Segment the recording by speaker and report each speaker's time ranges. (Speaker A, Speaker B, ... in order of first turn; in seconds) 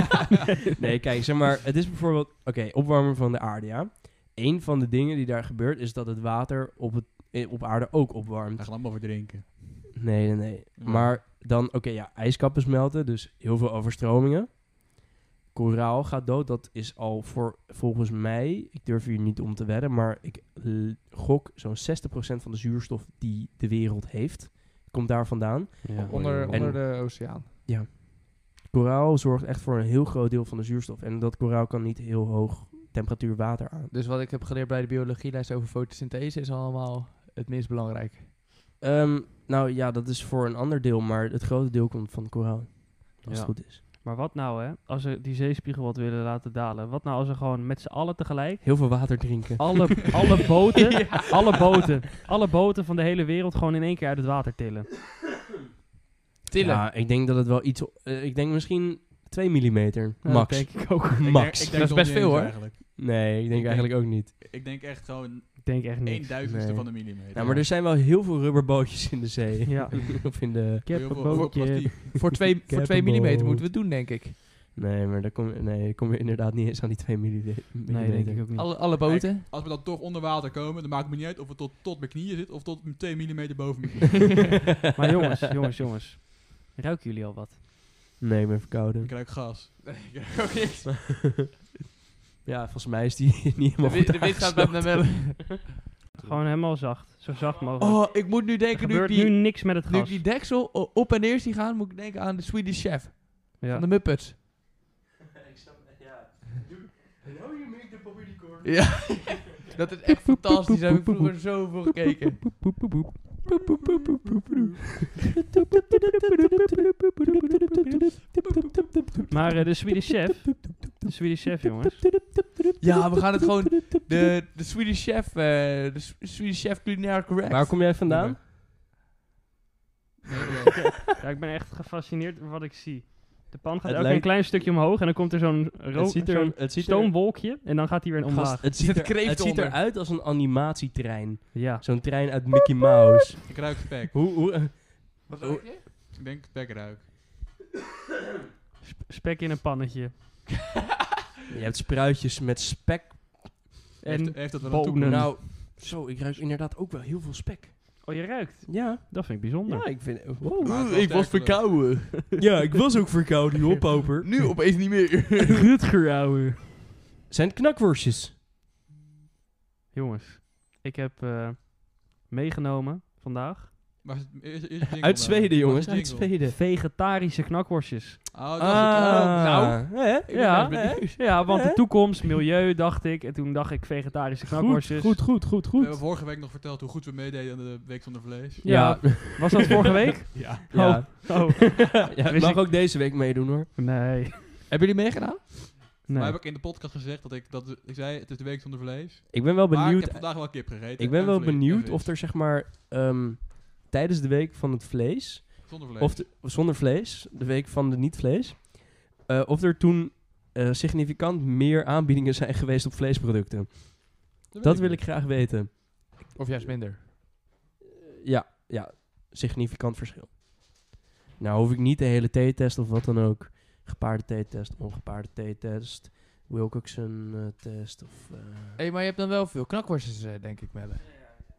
Speaker A: 0.8-8.7, 9.9-33.9, 38.8-43.8, 48.6-50.1, 56.6-61.9, 63.0-64.3, 66.4-71.0, 72.2-73.7, 74.7-78.4, 88.2-89.1, 92.5-95.2, 105.5-109.4, 110.2-111.3, 112.4-124.3, 127.5-128.4, 133.8-134.6, 135.9-137.2, 138.3-143.5, 144.1-145.6, 151.5-153.7, 155.0-160.8, 162.4-164.3, 167.3-168.3, 175.0-176.6, 178.6-181.8, 184.4-186.0, 188.6-189.7, 190.7-193.7, 199.3-216.3, 218.2-228.8
Speaker B: 8.6-9.9, 10.8-11.2, 61.2-67.6, 70.9-72.2, 79.0-84.5, 89.0-89.8, 128.1-128.4, 130.3-130.8, 143.5-144.1, 145.8-147.1, 154.0-155.4, 160.6-162.0, 174.0-176.3, 178.3-179.6, 185.8-189.0, 190.3-191.0, 196.1-202.1, 205.7-206.2, 214.5-215.1
Speaker C: 25.8-26.7, 43.3-54.9, 60.2-61.4, 65.6-66.4, 69.7-70.3, 70.8-72.0, 77.9-78.7, 85.0-87.6, 96.2-100.2, 103.6-103.8, 119.3-122.1, 130.7-138.6, 141.5-141.8, 148.8-150.2, 154.0-155.4, 158.0-159.9, 165.4-166.7, 169.9-173.7, 176.4-178.3, 180.3-185.2, 188.6-192.8, 193.8-194.6, 196.1-196.4
Speaker D: 26.0-27.5, 33.9-38.3, 50.9-51.3, 56.5-56.8, 61.7-62.7, 72.2-74.3, 78.5-79.5, 89.8-91.1, 93.8-96.4, 97.8-104.4, 108.6-112.6, 122.8-127.9, 138.7-139.8, 145.3-145.8, 160.6-162.2, 164.2-165.7, 178.9-181.3, 194.7-195.8, 216.3-217.0, 228.8-231.1